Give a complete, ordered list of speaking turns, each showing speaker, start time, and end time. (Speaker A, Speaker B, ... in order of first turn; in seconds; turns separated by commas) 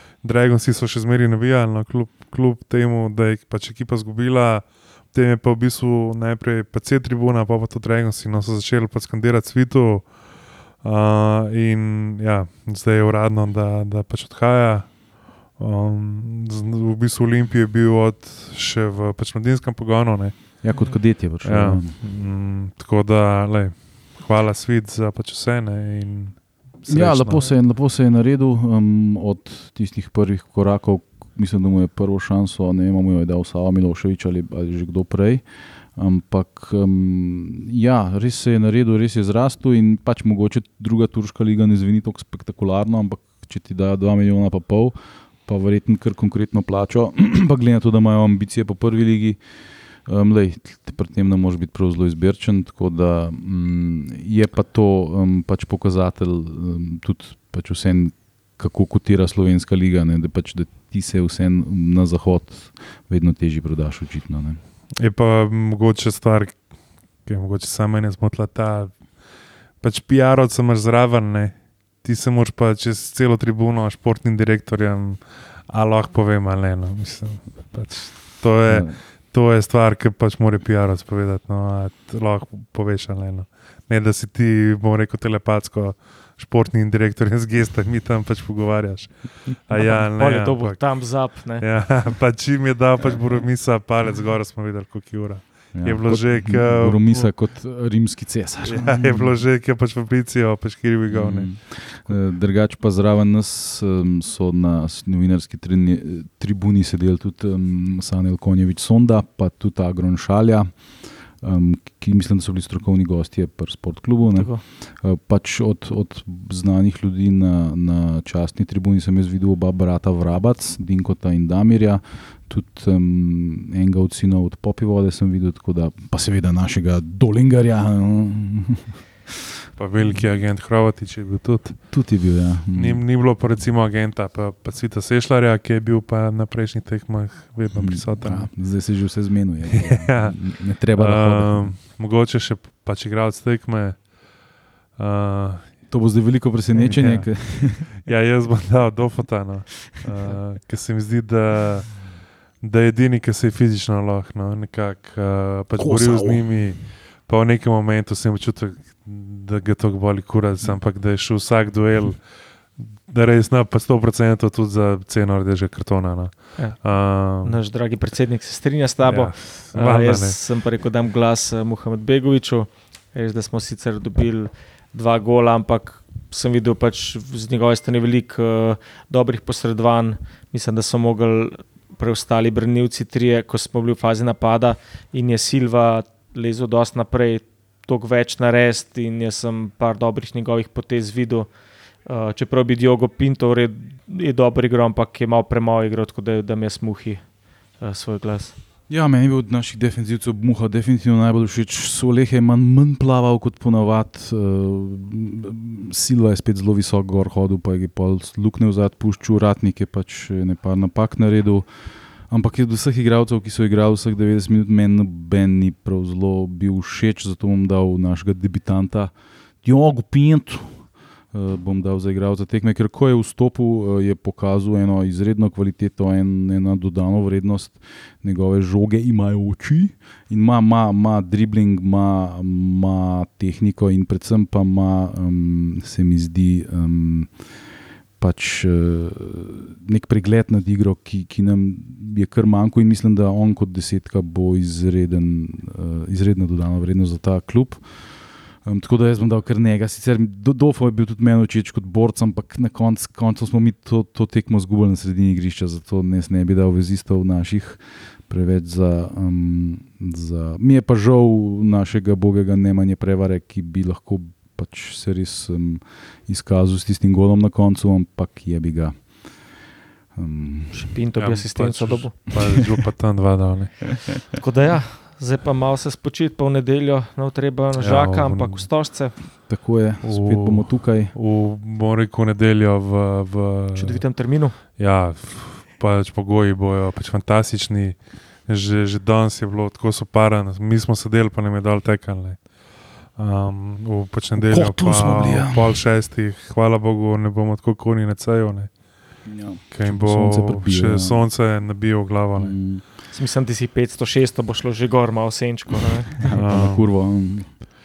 Speaker A: 0.2-10.1, Speaker A: 10.8-20.6, Speaker B: 20.6-22.0, Speaker C: 20.7-21.0, Speaker A: 21.4-27.5, Speaker B: 26.9-35.4, Speaker B: 36.0-49.4, Speaker B: 50.1-64.6, Speaker A: 65.0-66.6, Speaker A: 67.2-69.0, Speaker A: 69.8-97.2, Speaker B: 78.7-79.0, Speaker C: 89.7-91.7, Speaker B: 95.7-99.4, Speaker A: 98.6-102.2, Speaker B: 101.1-110.7, Speaker B: 111.4-128.9, Speaker C: 114.3-114.6, Speaker A: 129.8-131.9, Speaker B: 131.9-133.0, Speaker A: 132.7-138.7, Speaker B: 137.7-141.8, Speaker A: 139.6-144.1, Speaker A: 145.0-146.0, Speaker B: 145.9-147.9, Speaker A: 146.7-162.3, Speaker B: 155.8-156.6, Speaker A: 162.8-167.6, Speaker C: 166.6-191.5, Speaker A: 169.0-170.4, Speaker C: 192.1-197.2, Speaker C: 197.8-198.6, Speaker B: 198.9-211.7, Speaker B: 212.3-219.1, Speaker B: 219.6-237.3, Speaker B: 238.2-248.0, Speaker B: 248.6-269.4, Speaker B: 270.1-270.9, Speaker C: 270.7-272.5, Speaker A: 271.2-274.1, Speaker C: 274.3-279.2, Speaker A: 277.8-278.7, Speaker B: 279.5-281.1, Speaker A: 280.0-298.7, Speaker C: 283.7-284.6, Speaker B: 294.4-295.8, Speaker B: 299.2-301.3, Speaker A: 299.7-302.6, Speaker B: 302.4-302.8, Speaker C: 303.1-306.3, Speaker A: 306.3-306.9, Speaker B: 306.3-307.5